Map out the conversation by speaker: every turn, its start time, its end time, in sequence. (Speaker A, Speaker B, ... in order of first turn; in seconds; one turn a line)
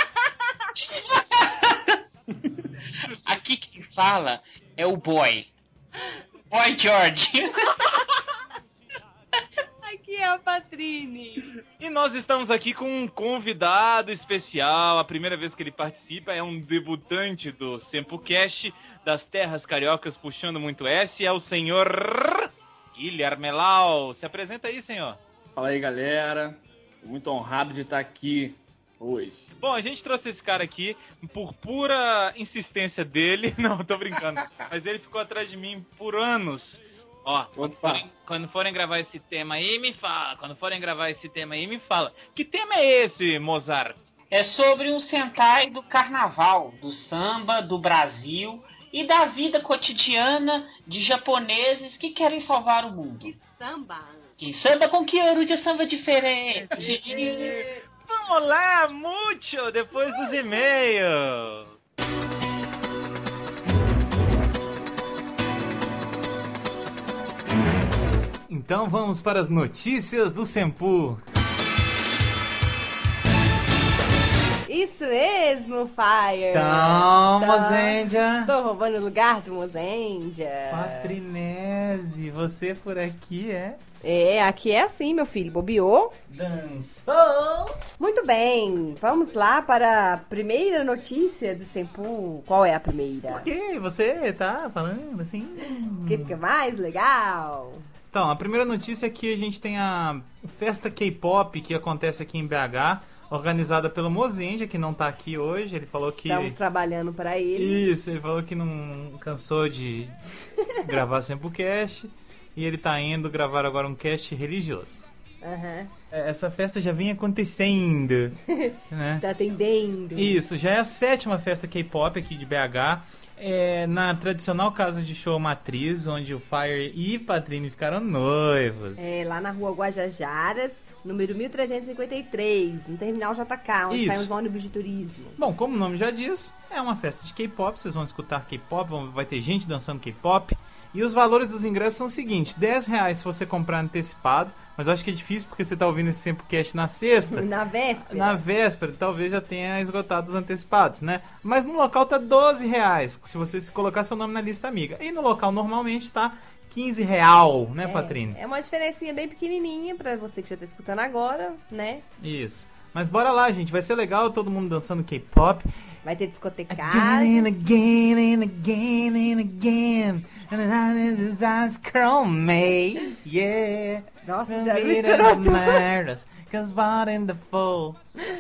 Speaker A: 0.8-2.0
Speaker A: 3.1-5.5
Speaker A: 6.5-7.9
Speaker B: 9.9-11.4
Speaker C: 11.8-25.2
Speaker D: 25.6-29.5
Speaker C: 29.6-44.0
Speaker D: 37.6-38.1
Speaker A: 44.3-53.4
Speaker E: 53.3-54.2
Speaker B: 53.5-54.2
Speaker A: 54.4-57.6
Speaker C: 56.5-61.8
Speaker F: 68.5-71.2
Speaker E: 74.7-81.2
Speaker F: 76.5-78.5
Speaker C: 76.8-77.1
Speaker F: 80.7-83.8
Speaker E: 84.0-86.2
Speaker F: 86.3-87.8
Speaker E: 88.0-93.5
Speaker F: 93.3-96.4
Speaker E: 96.0-97.8
Speaker F: 98.1-106.6
Speaker E: 106.2-107.9
Speaker F: 107.6-110.1
Speaker F: 110.8-115.0
Speaker E: 115.4-115.9
Speaker F: 116.1-118.4
Speaker E: 118.5-120.4
Speaker F: 118.9-119.2
Speaker F: 120.2-129.1
Speaker E: 129.0-135.4
Speaker F: 133.9-134.3
Speaker F: 135.4-147.5
Speaker E: 147.3-148.4
Speaker F: 148.1-158.4
Speaker E: 157.8-162.0
Speaker F: 162.2-165.6
Speaker C: 162.7-162.9
Speaker E: 166.1-167.6
Speaker F: 166.7-178.0
Speaker E: 174.2-175.9